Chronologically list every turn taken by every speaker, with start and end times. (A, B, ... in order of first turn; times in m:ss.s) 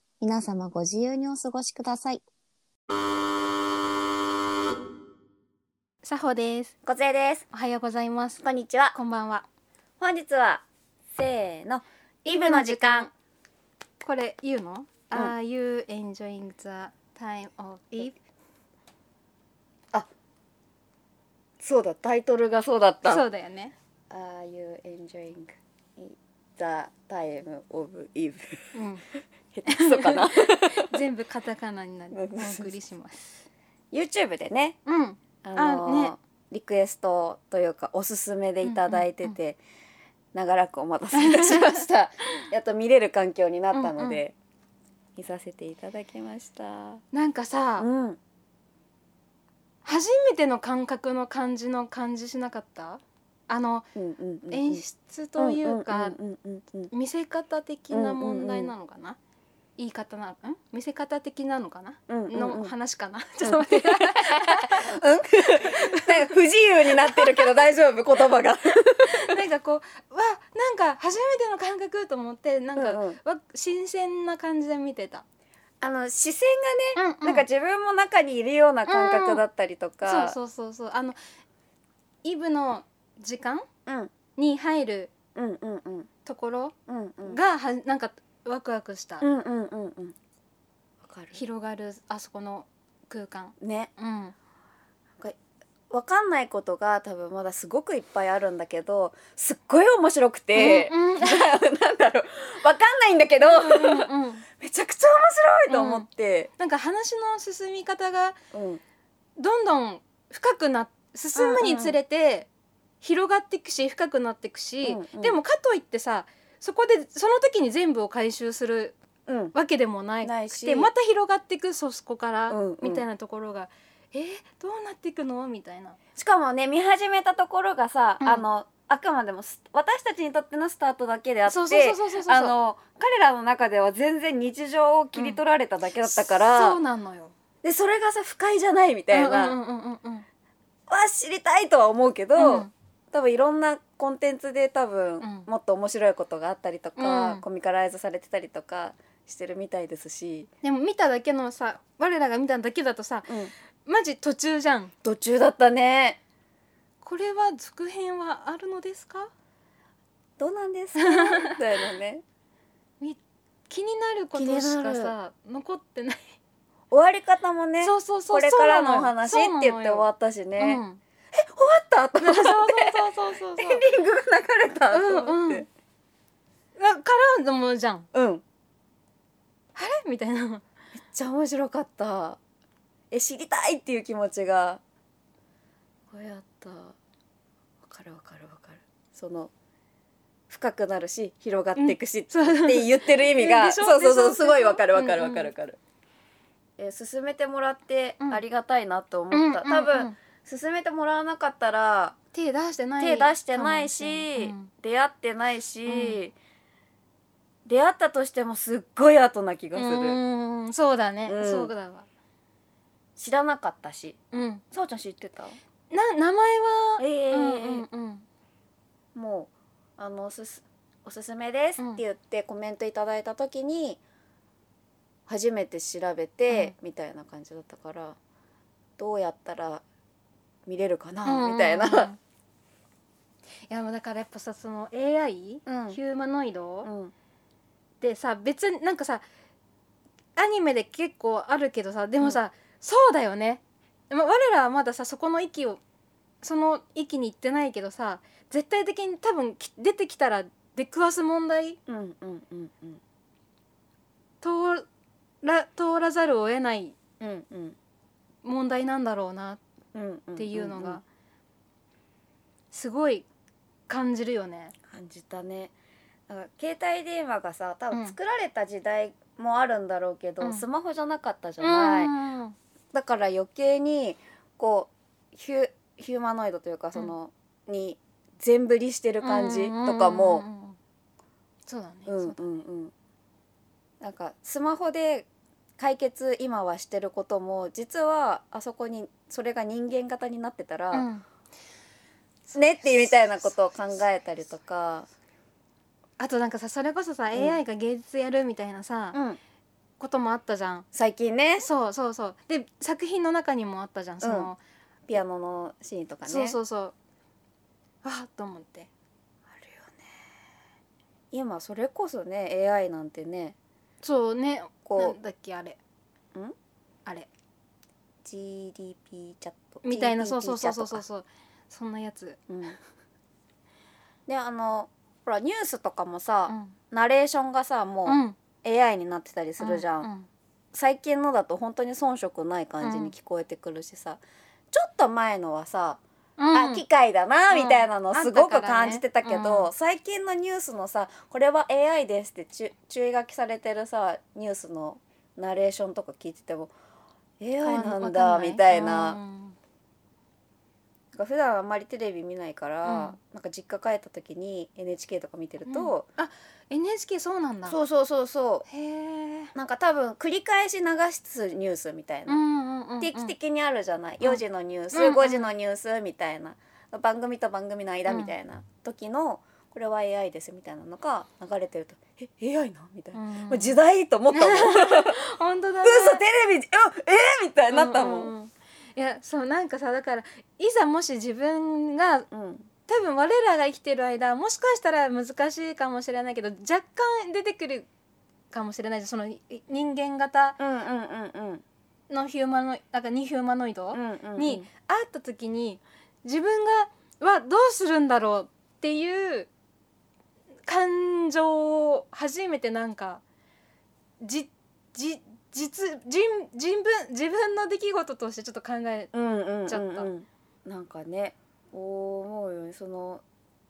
0:00.2-0:02.2 A
0:06.0-0:06.7 B
0:06.8-0:07.4 C
0:07.5-0:08.4 B
0:08.4-0:09.0 C
0:08.9-0:09.5 B
0:10.0-0:10.6 C
0:11.2-0:13.1 C
0:12.2-0:13.1 B
0:14.0-0:18.2 B
0:21.6-0:23.2 C
0:23.0-0:23.8 B
0:24.1-0:28.7 C
0:28.7-0:29.0 B
0:29.5-0:30.9 C
0:29.7-0:33.4 B
0:32.1-0:32.7 C
0:33.9-0:34.8 C
0:34.9-0:36.1 B
0:35.4-0:39.6 C
0:38.6-0:39.4 B
0:40.3-0:44.3 C
0:41.2-0:41.8 B
0:43.7-0:44.2 B
0:45.2-0:47.0 C
0:47.1-0:47.9 B
0:47.8-0:48.2 C
0:49.8-0:53.9 B
0:54.0-0:54.8 C
0:54.5-0:56.2 B
0:55.4-0:56.9 C
0:56.9-0:59.2 B
0:57.9-0:58.7 C
0:59.8-1:05.0 B
1:02.1-1:02.7 C
1:03.4-1:09.3 C
1:05.6-1:06.2 B
1:07.0-1:07.5 B
1:09.0-1:15.2 B
1:12.8-1:13.2 C
1:15.8-1:20.4 C
1:17.0-1:17.5 B
1:18.9-1:19.4 B
1:20.0-1:21.2 B
1:22.2-1:23.7 B
1:23.9-1:24.1 C
1:24.4-1:25.1 B
1:25.4-1:26.1 C
1:26.3-1:26.7 B
1:26.9-1:27.4 C
1:27.2-1:29.2 B
1:29.2-1:30.2 C
1:31.0-1:31.4 C
1:31.3-1:34.4 B
1:33.6-1:33.9 C
1:35.9-1:46.5 C
1:40.6-1:41.6 B
1:43.4-1:44.5 B
1:45.7-1:46.1 B
1:46.6-1:48.4 B
1:48.5-1:48.8 C
1:49.4-1:52.5 B
1:51.4-1:52.0 C
1:53.0-1:59.0 B
1:54.8-1:55.4 C
1:59.3-1:59.6 C
1:59.5-2:06.0 B
2:00.2-2:00.9 C
2:02.5-2:03.0 C
2:06.2-2:16.8 C
2:11.5-2:12.5 B
2:16.0-2:17.3 B
2:17.6-2:19.6 C
2:19.1-2:20.3 B
2:20.9-2:30.5 C
2:22.4-2:22.7 B
2:25.2-2:25.5 B
2:27.0-2:27.4 B
2:30.6-2:33.3 B
2:33.3-2:33.5 C
2:33.8-2:34.9 B
2:35.0-2:36.2 C
2:37.0-2:39.3 B
2:40.4-2:42.2 C
2:41.0-2:41.6 B
2:43.0-2:46.3 B
2:44.3-2:45.1 C
2:46.9-2:50.8 C
2:47.8-2:50.1 B
2:50.6-2:51.0 B
2:51.3-2:55.7 C
2:52.2-2:53.8 B
2:54.9-2:55.7 B
2:56.8-2:58.1 B
2:58.1-2:58.4 C
2:59.8-3:00.6 B
3:01.0-3:02.4 C
3:03.1-3:04.8 C
3:06.1-3:07.0 C
3:07.8-3:09.5 C
3:10.5-3:15.8 C
3:11.8-3:15.5 B
3:16.8-3:22.2 C
3:19.3-3:20.2 B
3:22.3-3:24.7 B
3:23.0-3:26.3 C
3:25.9-3:26.2 B
3:27.7-3:30.2 C
3:29.8-3:32.1 B
3:31.3-3:31.7 C
3:33.2-3:34.2 C
3:34.3-3:34.6 B
3:34.7-3:35.6 C
3:35.9-3:38.3 B
3:37.0-3:37.8 C
3:39.2-3:44.0 C
3:45.3-3:48.2 C
3:49.0-3:49.8 C
3:50.7-3:52.1 C
3:51.2-3:52.2 B
3:53.7-3:56.9 B
3:55.7-3:56.0 C
3:56.8-3:57.1 C
3:58.0-3:59.2 B
4:00.4-4:05.8 B
4:06.4-4:11.8 B
4:11.9-4:13.0 C
4:14.4-4:14.9 B
4:15.4-4:17.0 B
4:17.2-4:17.8 C
4:18.4-4:19.6 B
4:19.9-4:21.0 C
4:20.4-4:21.0 B
4:22.7-4:23.3 B
4:23.9-4:24.8 B
4:24.9-4:25.7 C
4:26.3-4:32.1 C
4:31.6-4:32.6 B
4:32.9-4:40.5 C
4:39.2-4:40.8 B
4:41.7-4:42.4 B
4:42.1-4:42.9 C
4:44.0-4:51.1 C
4:50.9-4:51.2 B
4:52.5-4:55.1 C
4:56.2-4:59.2 B
4:57.3-4:57.6 C
4:59.1-4:59.4 C
5:00.0-5:00.9 B
5:00.9-5:01.7 C
5:01.6-5:04.6 B
5:04.2-5:04.5 C
5:05.1-5:06.6 C
5:06.3-5:06.9 B
5:08.0-5:08.9 B
5:09.5-5:10.0 C
5:11.3-5:13.6 C
5:14.0-5:15.8 B
5:14.8-5:15.2 C
5:18.2-5:21.0 C
5:19.8-5:22.4 B
5:22.5-5:22.8 C
5:24.3-5:30.1 C
5:26.5-5:26.8 B
5:28.1-5:28.4 B
5:29.6-5:30.3 B
5:30.7-5:36.0 C
5:32.8-5:33.1 B
5:36.4-5:36.8 B
5:36.5-5:46.7 C
5:37.5-5:39.7 B
5:47.4-5:49.2 C
5:47.6-5:49.6 B
5:51.1-5:56.1 C
5:52.8-5:53.2 B
5:55.7-5:57.8 B
5:57.7-5:58.7 C
5:58.7-5:59.5 B
5:59.6-6:02.4 C
6:02.3-6:03.3 B
6:03.0-6:15.2 C
6:04.9-6:05.5 B
6:08.1-6:08.3 B
6:13.1-6:13.8 B
6:14.3-6:16.2 B
6:15.8-6:18.3 C
6:17.7-6:22.3 B
6:22.3-6:22.7 C
6:22.9-6:27.9 B
6:28.5-6:30.6 B
6:30.6-6:31.6 C
6:32.1-6:39.5 B
6:33.9-6:34.7 C
6:40.7-6:43.2 B
6:44.2-6:49.1 B
6:49.1-6:53.2 C
6:49.7-6:50.1 B